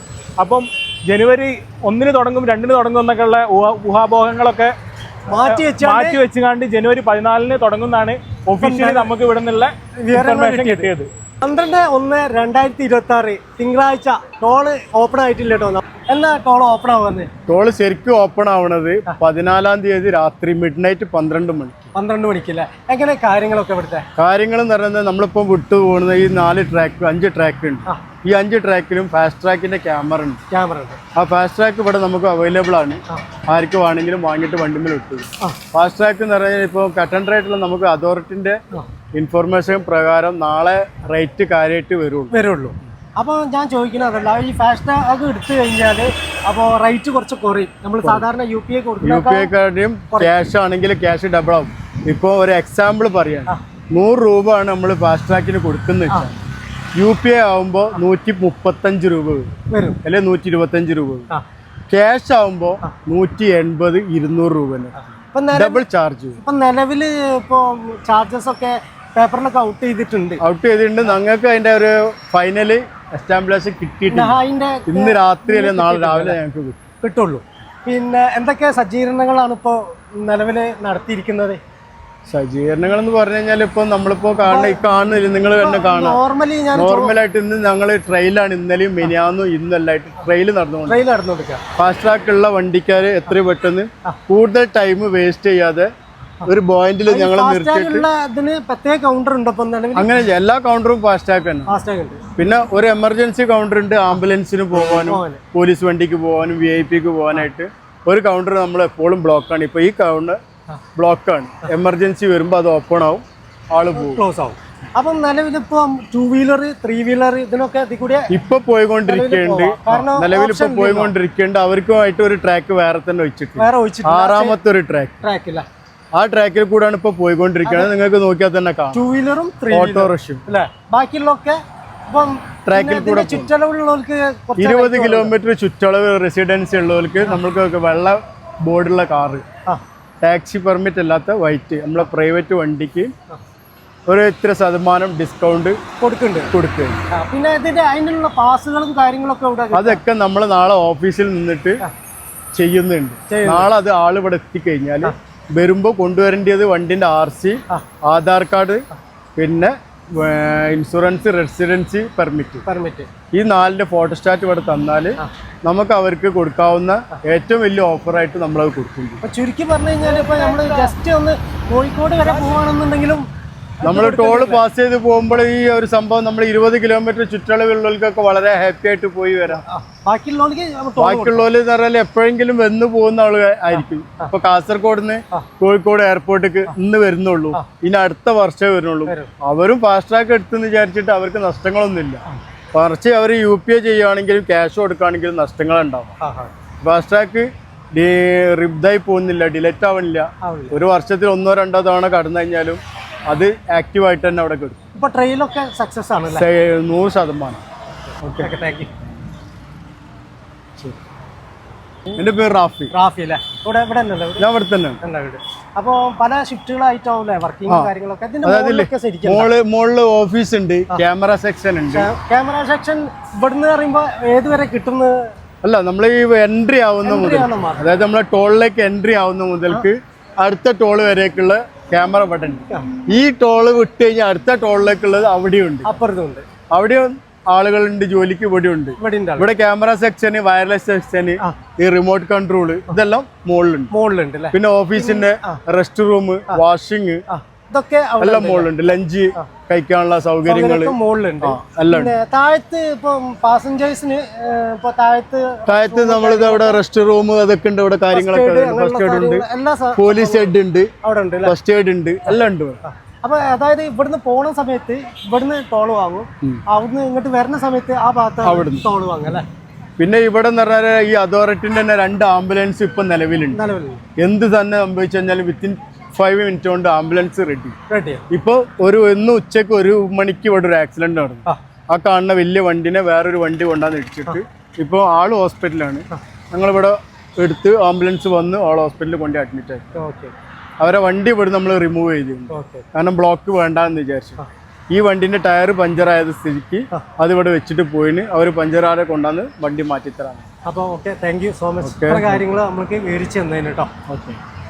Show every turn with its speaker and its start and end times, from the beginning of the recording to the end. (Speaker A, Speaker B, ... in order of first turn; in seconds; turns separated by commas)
Speaker A: 0.4-4.7, Speaker B: 5.3-6.2, Speaker A: 5.3-11.1, Speaker B: 8.6-9.1, Speaker B: 10.0-10.9, Speaker B: 11.4-17.3, Speaker C: 17.5-21.9, Speaker B: 21.9-24.1, Speaker C: 24.1-30.4, Speaker B: 30.5-31.0, Speaker C: 31.1-38.6, Speaker C: 39.1-42.3, Speaker B: 42.3-49.5, Speaker C: 49.0-56.4, Speaker C: 57.0-59.5, Speaker B: 59.7-60.0, Speaker C: 60.0-61.3, Speaker C: 61.9-66.4, Speaker B: 65.3-65.8, Speaker B: 66.4-70.4, Speaker C: 70.4-76.8, Speaker B: 74.1-76.4, Speaker B: 77.0-81.6, Speaker C: 82.3-86.2, Speaker B: 84.4-84.8, Speaker B: 85.5-87.1, Speaker C: 86.7-91.0, Speaker B: 90.9-91.6, Speaker C: 91.8-95.9, Speaker C: 96.4-98.1, Speaker B: 97.1-100.1, Speaker C: 99.9-101.7, Speaker B: 101.7-102.2, Speaker C: 102.3-110.4, Speaker B: 104.7-105.4, Speaker C: 111.0-114.2, Speaker B: 113.9-118.3, Speaker C: 118.3-125.2, Speaker B: 119.0-121.1, Speaker B: 123.6-124.6, Speaker B: 125.2-125.7, Speaker C: 126.1-129.0, Speaker B: 127.6-127.9, Speaker B: 128.9-131.6, Speaker C: 129.7-130.4, Speaker B: 132.1-135.3, Speaker C: 132.7-133.5, Speaker C: 134.6-139.4, Speaker C: 140.2-143.1, Speaker C: 144.1-145.8, Speaker B: 146.0-146.5, Speaker C: 146.5-147.0, Speaker B: 147.1-150.0, Speaker C: 149.7-151.8, Speaker C: 152.5-158.8, Speaker B: 153.3-153.7, Speaker C: 159.3-162.6, Speaker B: 162.6-163.1, Speaker C: 163.3-169.2, Speaker B: 169.2-173.2, Speaker B: 173.8-174.6, Speaker C: 173.8-179.6, Speaker B: 179.5-181.5, Speaker C: 181.0-192.2, Speaker B: 183.8-184.3, Speaker C: 192.7-196.1, Speaker B: 196.2-196.5, Speaker C: 196.8-204.8, Speaker B: 200.4-200.8, Speaker B: 204.9-206.5, Speaker C: 206.3-207.6, Speaker C: 208.2-208.5, Speaker B: 208.4-208.9, Speaker C: 212.2-212.9, Speaker B: 212.9-214.5, Speaker C: 214.4-215.0, Speaker B: 215.0-219.5, Speaker C: 218.4-222.1, Speaker B: 221.9-225.2, Speaker C: 225.6-235.9, Speaker B: 227.0-227.9, Speaker B: 235.8-236.4, Speaker C: 236.7-243.9, Speaker B: 239.0-239.5, Speaker B: 243.9-245.6, Speaker C: 244.5-247.2, Speaker B: 247.3-248.7, Speaker C: 248.2-252.2, Speaker B: 250.4-256.8, Speaker C: 255.7-260.9, Speaker B: 258.1-261.5, Speaker C: 261.4-262.8, Speaker B: 262.3-269.4, Speaker C: 268.4-268.9, Speaker C: 270.0-273.6, Speaker B: 273.5-274.0, Speaker C: 274.2-277.8, Speaker B: 277.9-278.2, Speaker C: 278.3-289.9, Speaker B: 289.9-290.3, Speaker C: 290.8-294.4, Speaker B: 292.5-292.9, Speaker C: 294.9-300.4, Speaker B: 300.6-303.9, Speaker C: 301.8-302.4, Speaker C: 304.1-304.4